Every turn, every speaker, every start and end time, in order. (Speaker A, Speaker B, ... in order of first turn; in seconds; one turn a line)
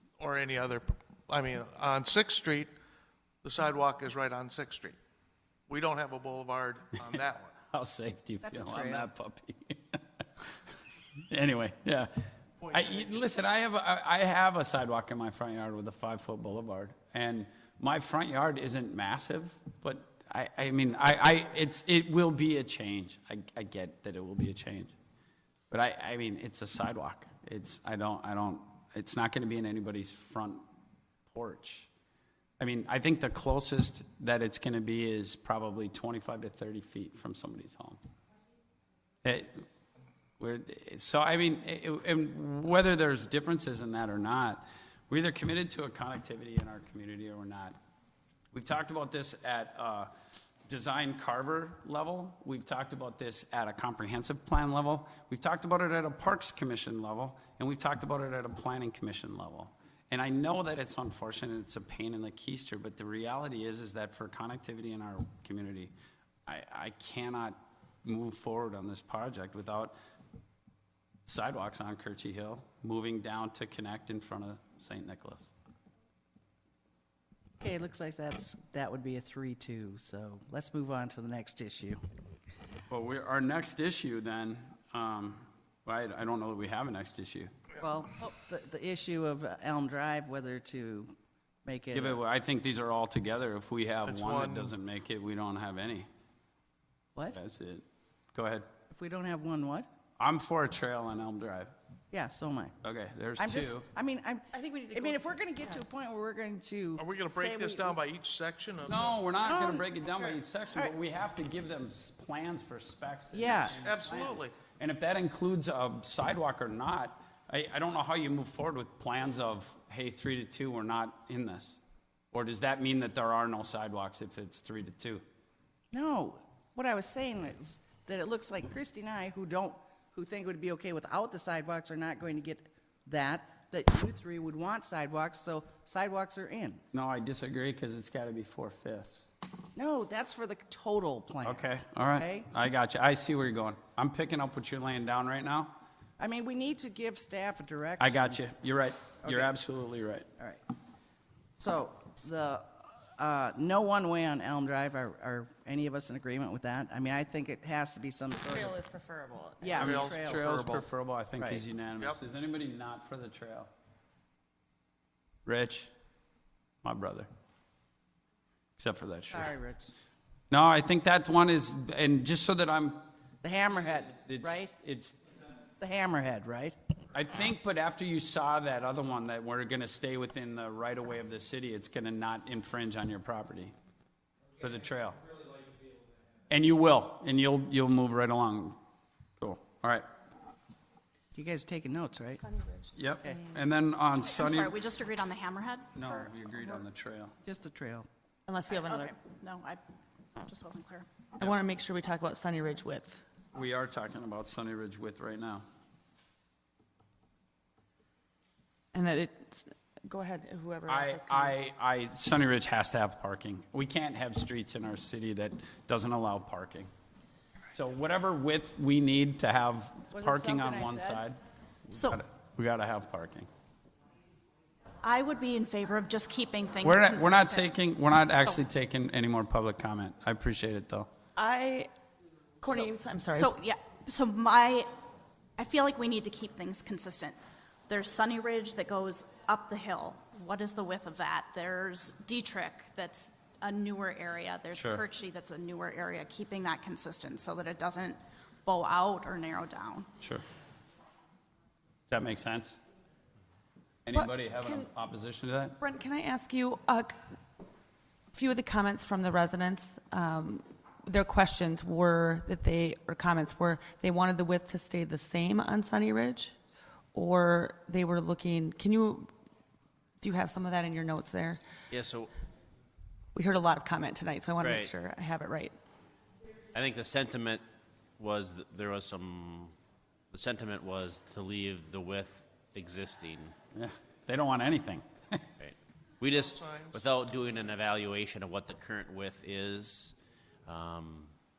Speaker A: 0.2-2.7
Speaker A: 3.4-5.0
Speaker A: 5.7-7.5
Speaker B: 7.6-10.0
Speaker C: 8.4-9.1
Speaker B: 11.3-12.1
Speaker B: 12.6-24.9
Speaker A: 12.8-13.1
Speaker B: 25.7-30.6
Speaker B: 31.2-31.9
Speaker B: 32.6-38.0
Speaker B: 39.2-39.6
Speaker B: 40.4-47.8
Speaker B: 48.5-50.1
Speaker B: 50.7-65.9
Speaker B: 66.5-69.9
Speaker B: 71.2-75.5
Speaker C: 77.6-82.0
Speaker B: 82.9-87.5
Speaker C: 87.8-91.1
Speaker C: 91.6-92.2
Speaker B: 91.9-96.1
Speaker A: 94.0-94.8
Speaker B: 97.3-98.7
Speaker C: 98.9-99.9
Speaker B: 100.2-101.7
Speaker C: 102.1-102.7
Speaker B: 102.8-103.9
Speaker C: 103.4-108.0
Speaker D: 104.5-105.8
Speaker A: 107.0-109.3
Speaker B: 108.8-121.8
Speaker C: 109.4-110.9
Speaker C: 113.3-113.8
Speaker A: 113.7-114.6
Speaker B: 122.3-125.2
Speaker C: 125.9-136.8
Speaker B: 136.9-139.2
Speaker C: 139.8-142.5
Speaker B: 141.4-145.7
Speaker C: 146.2-148.4
Speaker B: 148.0-150.3
Speaker C: 149.2-149.5
Speaker C: 150.4-150.6
Speaker C: 151.6-158.8
Speaker D: 158.4-159.9
Speaker C: 159.6-160.8
Speaker B: 159.8-163.7
Speaker A: 159.8-160.8
Speaker C: 161.4-161.6
Speaker B: 165.4-165.9
Speaker B: 166.8-167.3
Speaker B: 168.8-169.5
Speaker C: 169.3-169.9
Speaker B: 170.5-173.0
Speaker C: 173.4-174.7
Speaker B: 174.0-175.3
Speaker C: 175.8-176.8
Speaker B: 177.1-183.7
Speaker B: 184.6-185.2
Speaker B: 186.5-188.8
Speaker B: 189.4-190.0
Speaker C: 191.3-192.4
Speaker D: 192.4-192.9
Speaker B: 192.9-194.7
Speaker E: 194.2-196.8
Speaker B: 195.9-197.3
Speaker C: 197.4-198.1
Speaker D: 198.5-199.1
Speaker E: 198.7-199.8
Speaker E: 200.4-201.1
Speaker D: 201.4-203.2
Speaker B: 203.5-205.6
Speaker D: 208.9-211.6
Speaker B: 210.9-216.9
Speaker B: 217.7-221.4
Speaker C: 220.1-221.2
Speaker E: 221.9-222.2
Speaker B: 221.9-223.5
Speaker E: 225.0-228.6
Speaker B: 226.8-231.1
Speaker D: 231.3-231.9
Speaker D: 232.6-233.5
Speaker E: 232.7-234.9
Speaker E: 235.6-237.3
Speaker E: 237.9-250.1
Speaker B: 244.7-245.0
Speaker B: 252.1-252.8
Speaker B: 254.1-255.8
Speaker D: 254.1-254.9
Speaker D: 255.8-257.2
Speaker D: 258.3-266.6
Speaker D: 267.1-269.3
Speaker D: 270.2-271.6
Speaker F: 271.9-272.3
Speaker D: 273.3-275.8
Speaker F: 274.6-274.9
Speaker F: 276.7-277.6
Speaker F: 278.2-279.7
Speaker F: 280.3-283.5
Speaker B: 283.7-285.5
Speaker F: 285.6-290.1
Speaker A: 286.3-287.1
Speaker F: 290.6-291.3